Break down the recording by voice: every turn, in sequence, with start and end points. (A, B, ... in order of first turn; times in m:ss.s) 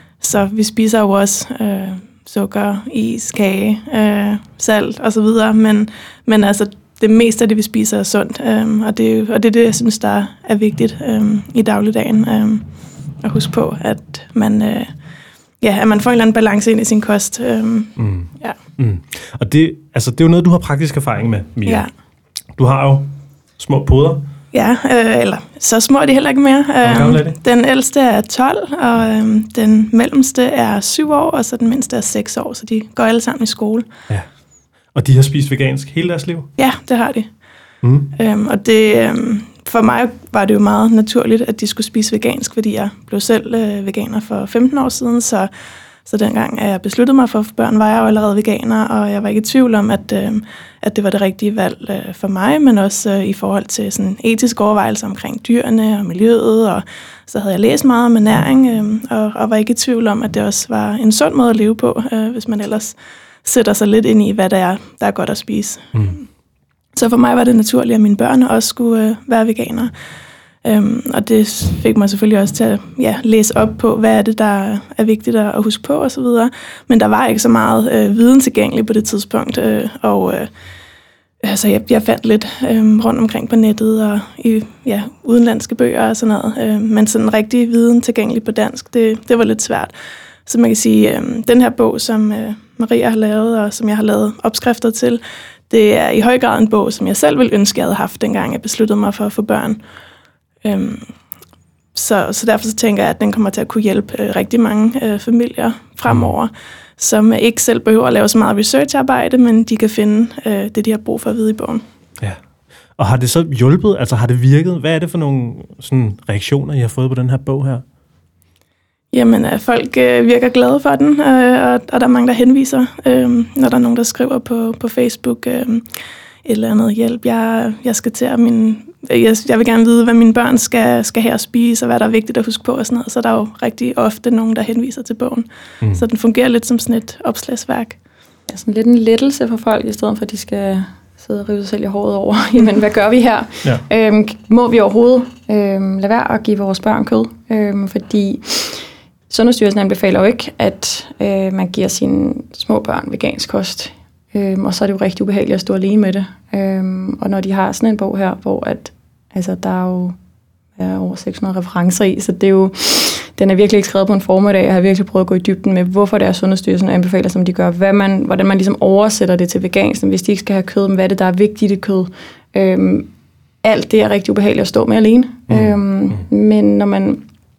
0:00.2-0:12.6 A
0:13.2-0:14.9 A
0:15.6-0:18.6 A
0:18.0-0:21.8 B
0:22.6-0:24.3 B
0:24.5-0:33.9 A
0:26.8-0:27.4 B
0:34.9-0:36.5 B
0:36.6-0:37.3 A
0:37.8-0:38.1 B
0:38.2-0:45.5 A
0:46.0-1:06.2 A
1:06.9-1:09.9 A
1:10.6-1:20.5 A
1:21.4-1:29.9 A
1:30.4-1:39.8 A
1:40.6-1:41.1 A
1:41.9-1:51.8 A
1:46.1-1:46.3 B
1:53.0-1:57.8 B
1:59.1-2:05.9 A
2:06.4-2:18.0 A
2:18.5-2:40.1 C
2:40.8-2:53.1 C
2:53.6-2:57.2 C
2:55.5-2:55.7 B